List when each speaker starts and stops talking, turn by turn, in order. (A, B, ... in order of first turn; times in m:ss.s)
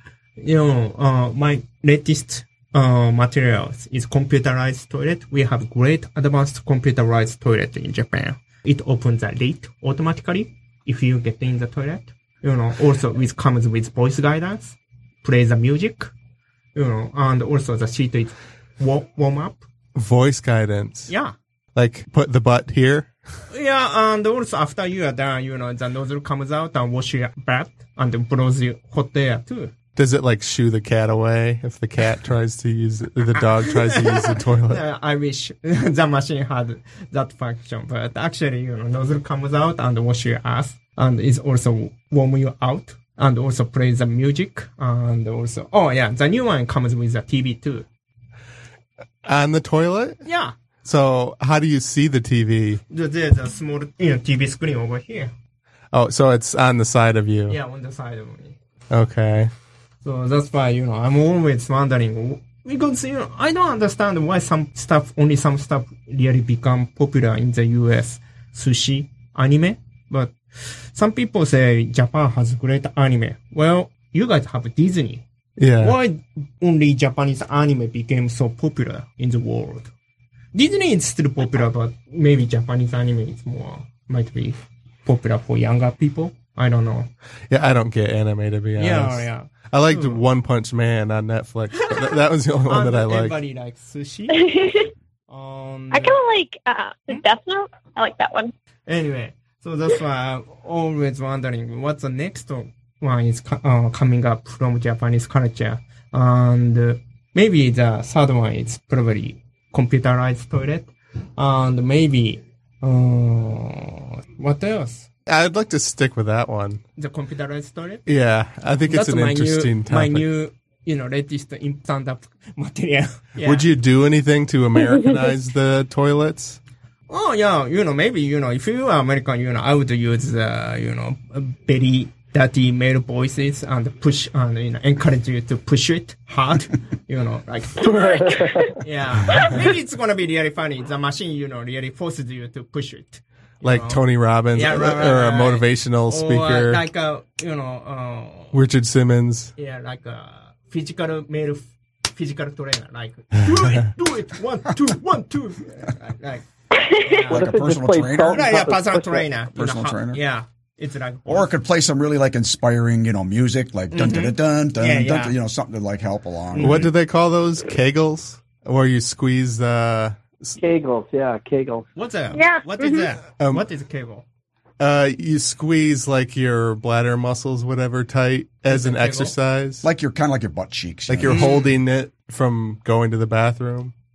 0:00.4-0:16.1 A
0:16.7-0:19.6 A
0:20.0-0:21.1 B
0:21.1-0:21.3 A
0:21.7-0:23.1 B
0:23.5-0:29.7 A
0:30.0-0:34.8 B
0:33.5-0:47.8 A
0:49.2-0:50.2 B
0:50.2-0:50.5 A
0:50.8-0:52.8 B
0:52.9-0:55.3 A
0:55.9-0:57.6 B
0:57.5-0:58.6 A
0:58.9-0:59.5 B
1:00.0-1:10.4 A
1:10.9-1:15.2 A
1:15.6-1:16.0 B
1:15.8-1:19.9 A
1:20.5-1:27.1 A
1:27.5-1:33.4 B
1:28.8-1:30.2 A
1:32.7-1:34.5 A
1:34.3-1:34.9 C
1:35.3-1:36.2 A
1:35.9-1:38.5 C
1:38.9-1:55.1 A
1:55.3-1:56.8 B
1:57.0-1:58.0 A
1:58.0-2:00.2 B
1:58.9-2:03.7 A
2:03.4-2:06.6 B
2:07.1-2:28.6 A
2:17.9-2:18.6 D
2:23.6-2:26.8 B
2:28.5-2:29.5 B
2:29.6-2:36.5 A
2:36.7-2:37.2 C
2:37.0-2:37.5 A
2:37.3-2:38.6 E
2:37.3-2:39.3 D
2:38.3-2:41.5 A
2:39.5-2:40.2 E
2:41.3-2:46.8 E
2:43.9-2:45.3 A
2:46.5-2:46.9 A
2:46.6-2:50.6 B
2:50.6-2:51.8 D
2:52.0-2:54.2 A
2:52.3-2:53.0 C
2:54.8-2:59.8 B
2:58.7-2:59.3 A
2:59.8-3:01.4 E
3:01.1-3:03.9 B
3:01.3-3:01.7 A